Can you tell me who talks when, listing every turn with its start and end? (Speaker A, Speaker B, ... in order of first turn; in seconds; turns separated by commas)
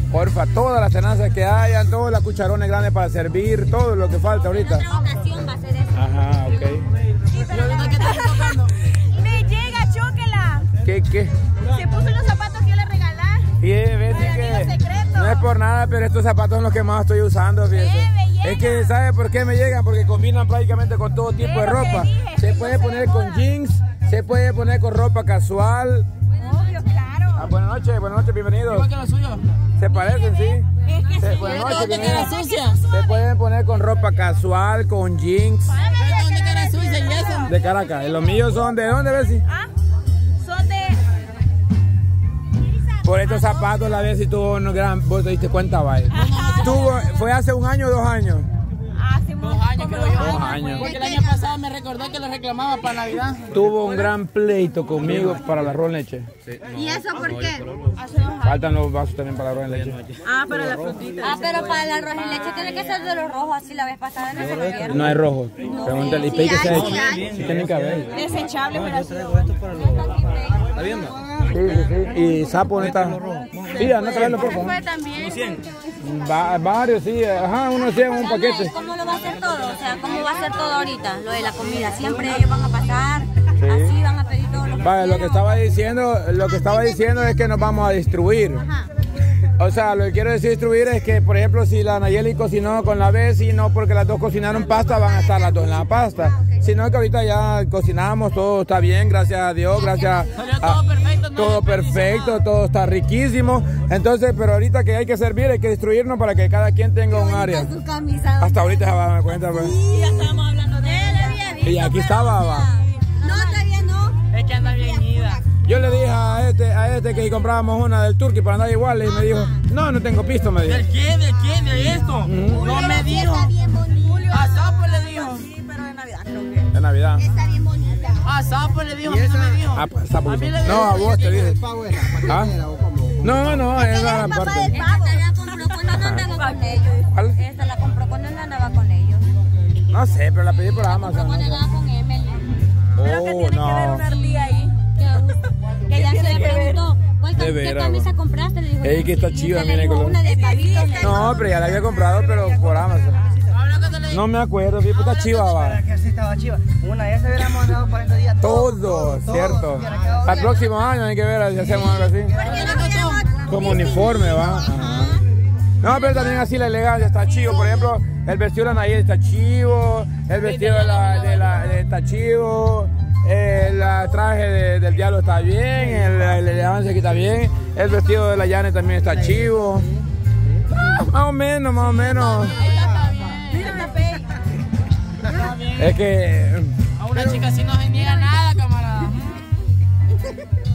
Speaker A: 0.1-4.9, Speaker B: 4.3-6.0, Speaker A: 5.9-6.9, Speaker C: 7.3-8.0, Speaker D: 7.5-8.9, Speaker B: 7.8-8.6, Speaker C: 9.0-10.7, Speaker A: 10.8-11.3, Speaker C: 11.7-13.5, Speaker A: 13.6-26.1, Speaker C: 14.1-15.5, Speaker C: 17.7-18.9, Speaker C: 21.4-23.4, Speaker B: 26.4-26.8, Speaker C: 26.5-27.3, Speaker A: 27.3-28.9, Speaker D: 28.7-29.4, Speaker A: 29.8-30.7, Speaker B: 30.9-32.5, Speaker A: 31.2-32.4, Speaker D: 31.8-32.8, Speaker A: 32.9-35.8, Speaker C: 35.8-37.1, Speaker D: 35.9-37.5, Speaker A: 37.5-39.4, Speaker C: 40.4-41.0, Speaker A: 43.0-48.5, Speaker C: 43.3-43.7, Speaker D: 46.1-47.0, Speaker C: 48.9-51.4, Speaker D: 49.4-53.6, Speaker A: 50.1-50.9, Speaker B: 50.7-51.1, Speaker A: 53.5-56.3, Speaker C: 56.8-58.4, Speaker D: 56.8-57.6, Speaker A: 58.4-60.0, Speaker C: 60.2-61.8, Speaker D: 60.7-61.5, Speaker B: 61.2-67.4, Speaker A: 64.9-68.2, Speaker C: 66.9-67.2, Speaker C: 68.1-69.5, Speaker B: 69.6-70.9, Speaker A: 71.4-73.2, Speaker A: 73.7-74.8, Speaker D: 73.9-74.5, Speaker C: 74.6-75.4, Speaker D: 75.0-75.6, Speaker A: 76.0-78.7, Speaker B: 78.0-85.6, Speaker A: 83.6-84.0, Speaker A: 84.8-88.7, Speaker A: 89.6-100.8, Speaker B: 94.9-95.8, Speaker B: 99.8-100.3, Speaker D: 100.3-102.4, Speaker A: 101.3-107.7, Speaker B: 107.1-108.8, Speaker A: 108.4-109.8, Speaker B: 109.5-115.4, Speaker D: 109.9-111.3, Speaker A: 111.6-112.7, Speaker D: 114.3-115.4, Speaker A: 115.6-120.9, Speaker B: 119.2-119.5, Speaker D: 120.7-123.5, Speaker A: 122.2-122.9, Speaker B: 122.3-124.5, Speaker C: 124.1-126.7, Speaker D: 124.2-125.5, Speaker A: 126.7-127.3, Speaker B: 127.2-128.2, Speaker D: 128.2-132.1, Speaker A: 129.7-131.6, Speaker E: 131.7-133.2, Speaker A: 132.2-132.6, Speaker A: 133.2-134.8, Speaker B: 133.7-139.3, Speaker C: 134.9-135.2, Speaker A: 135.9-136.2, Speaker C: 136.3-136.9, Speaker A: 137.1-137.4, Speaker A: 139.9-141.6, Speaker B: 140.8-142.5, Speaker A: 142.9-144.1, Speaker C: 143.1-144.7, Speaker B: 144.0-151.5, Speaker D: 146.2-146.7, Speaker A: 147.3-148.1, Speaker A: 148.8-150.2, Speaker C: 150.3-151.0, Speaker A: 151.0-153.2, Speaker D: 153.5-154.2, Speaker A: 154.1-155.8, Speaker E: 155.9-160.4, Speaker A: 158.4-162.4, Speaker D: 162.4-163.3, Speaker B: 162.4-165.1, Speaker A: 163.5-165.2, Speaker A: 165.8-179.9, Speaker D: 170.4-171.7, Speaker A: 180.8-182.6, Speaker D: 181.9-184.1, Speaker B: 182.5-182.8, Speaker B: 183.5-184.2, Speaker D: 185.3-186.0, Speaker A: 185.8-186.8, Speaker D: 187.0-189.5